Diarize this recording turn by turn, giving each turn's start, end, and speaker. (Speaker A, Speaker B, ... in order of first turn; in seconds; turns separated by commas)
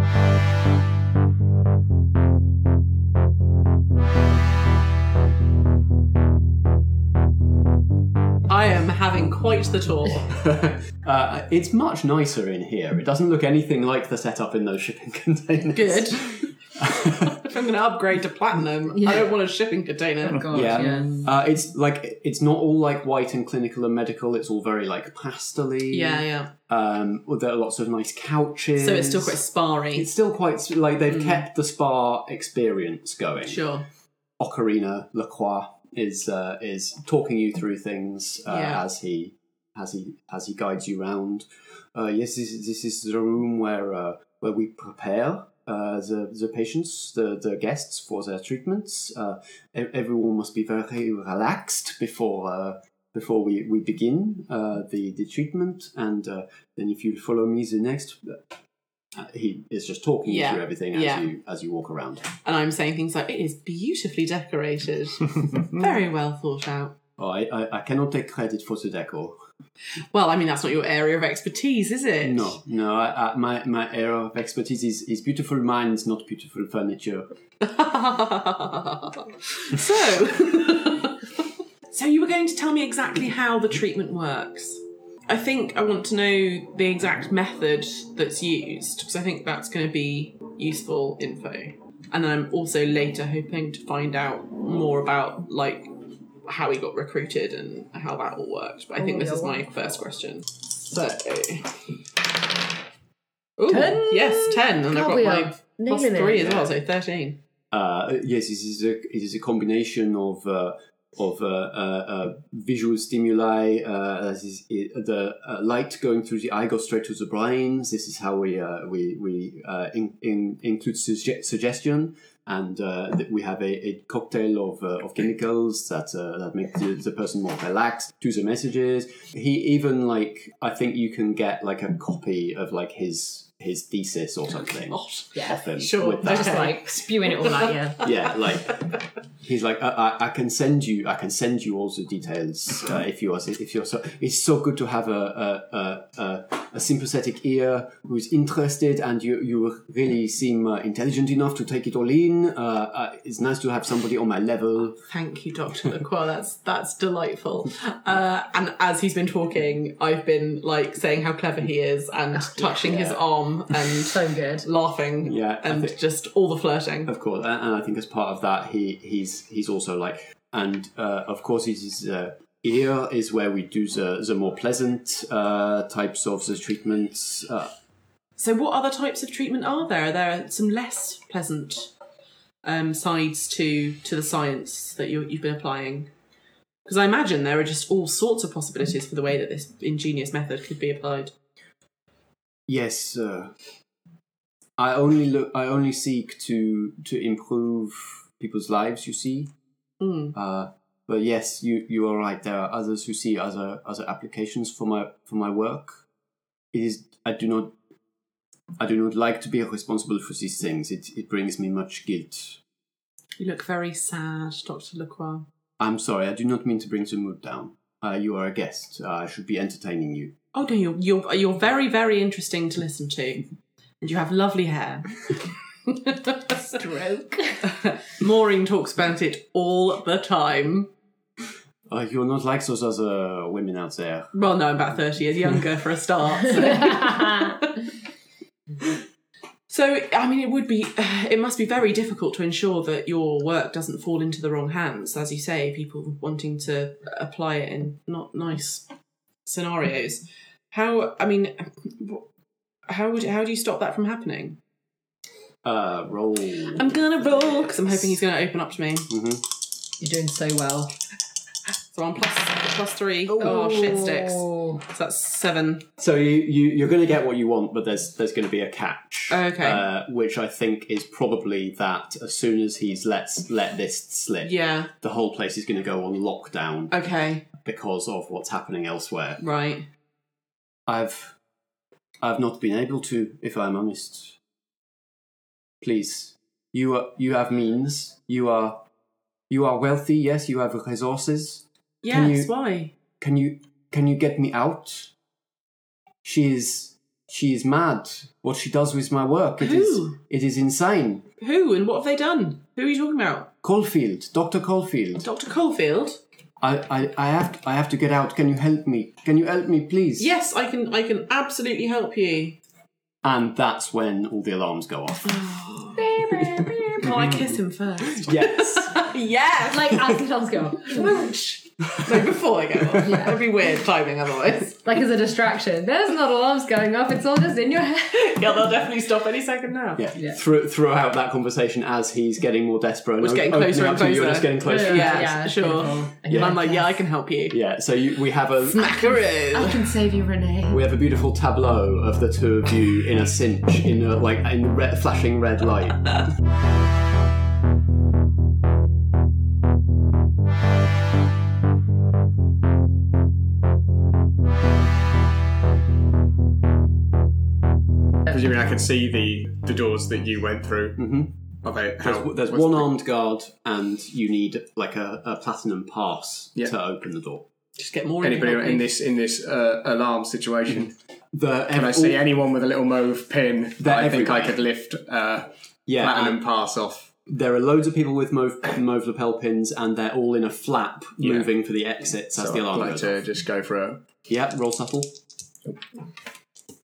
Speaker A: 8.5-10.3, Speaker B: 10.3-17.5, Speaker A: 15.7-16.2, Speaker A: 17.4-21.2, Speaker C: 19.0-19.3, Speaker C: 20.2-21.2, Speaker B: 20.5-29.4, Speaker A: 25.9-26.5, Speaker A: 28.8-30.1, Speaker B: 29.9-33.7, Speaker A: 31.1-31.4, Speaker A: 33.5-33.9, Speaker B: 34.4-58.4, Speaker A: 38.5-38.8, Speaker B: 59.2-62.3, Speaker A: 60.2-61.3, Speaker A: 62.4-67.0, Speaker B: 67.2-69.4, Speaker A: 70.1-72.6, Speaker B: 72.2-77.3, Speaker A: 77.6-81.3, Speaker A: 81.9-95.9, Speaker A: 96.5-101.7, Speaker C: 99.0-99.6, Speaker A: 103.6-107.4, Speaker C: 103.7-106.4, Speaker B: 106.4-106.7, Speaker B: 107.7-136.7, Speaker A: 134.6-137.7, Speaker C: 135.3-135.7, Speaker C: 136.2-138.1, Speaker B: 138.0-138.8, Speaker B: 139.4-155.0, Speaker A: 155.1-167.1, Speaker C: 162.4-162.6, Speaker B: 162.7-163.2, Speaker C: 164.0-164.7, Speaker B: 165.2-166.0, Speaker B: 167.1-177.7, Speaker A: 178.4-181.9, Speaker A: 182.6-186.1, Speaker A: 186.8-191.3, Speaker B: 192.7-193.6, Speaker B: 194.8-199.5, Speaker A: 200.0-200.3, Speaker B: 200.3-206.0, Speaker B: 206.7-207.8, Speaker B: 208.8-212.6, Speaker A: 213.4-215.5, Speaker B: 215.8-220.3, Speaker A: 220.5-225.1, Speaker A: 225.9-230.9, Speaker C: 226.8-227.6, Speaker B: 231.9-234.3, Speaker A: 234.3-237.7, Speaker A: 239.7-248.9, Speaker A: 249.5-252.2, Speaker A: 252.9-254.6, Speaker B: 255.6-258.2, Speaker A: 256.8-259.1, Speaker B: 259.1-259.4, Speaker C: 260.0-260.9, Speaker A: 261.9-265.8, Speaker C: 263.4-264.8, Speaker B: 266.0-279.4, Speaker A: 269.3-269.9, Speaker A: 274.4-274.9, Speaker A: 276.9-277.5, Speaker A: 279.4-279.9, Speaker B: 280.9-281.4, Speaker B: 282.2-284.4, Speaker B: 285.8-288.9, Speaker B: 289.5-295.1, Speaker A: 292.0-293.0, Speaker B: 296.2-301.2, Speaker A: 299.6-300.2, Speaker A: 301.4-303.5, Speaker B: 303.6-305.3, Speaker A: 305.2-306.2, Speaker B: 306.6-310.3, Speaker A: 310.2-312.6, Speaker B: 313.2-315.4, Speaker A: 315.3-320.2, Speaker C: 316.0-317.1, Speaker B: 318.2-319.0, Speaker C: 319.7-321.6, Speaker A: 322.0-324.9, Speaker C: 323.0-323.4, Speaker C: 324.8-328.5, Speaker A: 328.2-330.1, Speaker B: 330.0-336.6, Speaker C: 330.1-330.4, Speaker A: 333.2-337.6, Speaker C: 334.6-336.9, Speaker B: 337.5-339.0, Speaker A: 338.7-339.9, Speaker C: 339.4-340.9, Speaker B: 340.7-346.1, Speaker D: 358.3-361.1, Speaker B: 361.0-361.4, Speaker D: 361.6-362.9, Speaker B: 362.0-367.5, Speaker A: 367.8-368.9, Speaker D: 368.2-370.9, Speaker B: 370.7-372.3, Speaker D: 371.7-377.2, Speaker B: 373.8-374.6, Speaker B: 375.9-376.4, Speaker B: 377.3-383.2, Speaker D: 382.3-384.1, Speaker B: 384.3-385.1